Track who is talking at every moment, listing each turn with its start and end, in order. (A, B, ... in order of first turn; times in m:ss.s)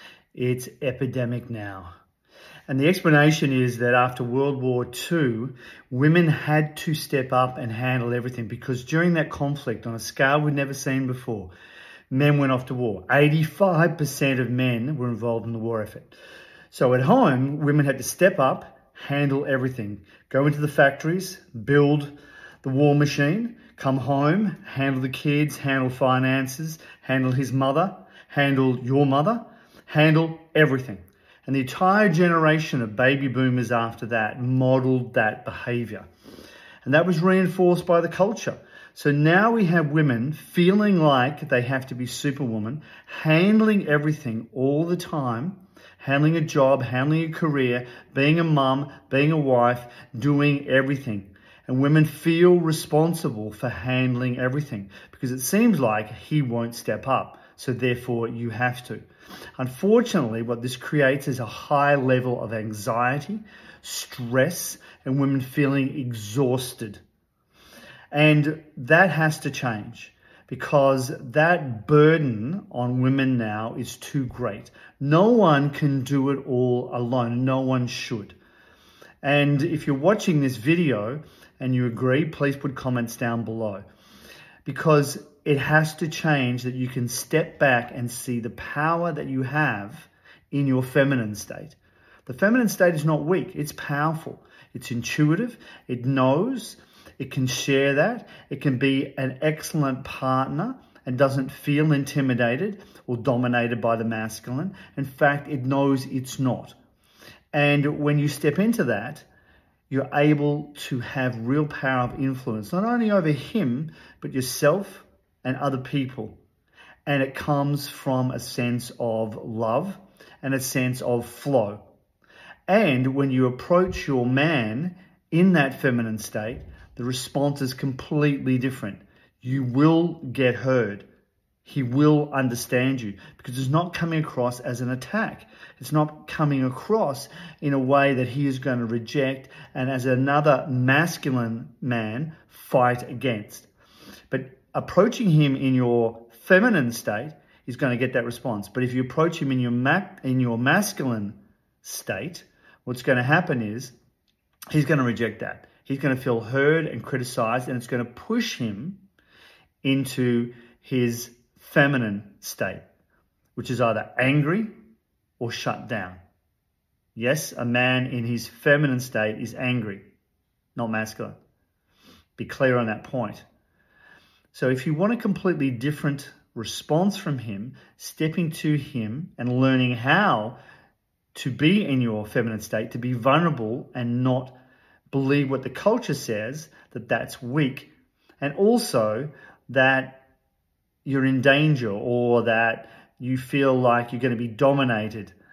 0:00.3-0:01.9 A
0:02.7-0:11.5 A
0:12.1-0:16.1 A
0:16.7-0:36.1 A
0:36.8-0:59.0 A
0:59.6-1:07.0 A
1:08.1-1:18.3 A
1:19.2-1:23.9 A
1:24.6-1:46.8 A
1:47.5-1:49.3 A
1:49.9-1:56.4 A
1:57.1-2:01.8 A
2:02.7-2:11.0 A
2:11.6-2:23.7 A
2:24.3-2:33.9 A
2:34.7-2:39.0 A
2:39.8-2:42.8 A
2:43.6-2:44.7 A
2:45.4-2:46.2 A
2:47.2-2:50.0 A
2:50.8-2:51.4 A
2:52.4-2:53.4 A
2:54.5-3:00.6 A
3:01.3-3:04.6 A
3:05.1-3:10.2 A
3:11.0-3:15.3 A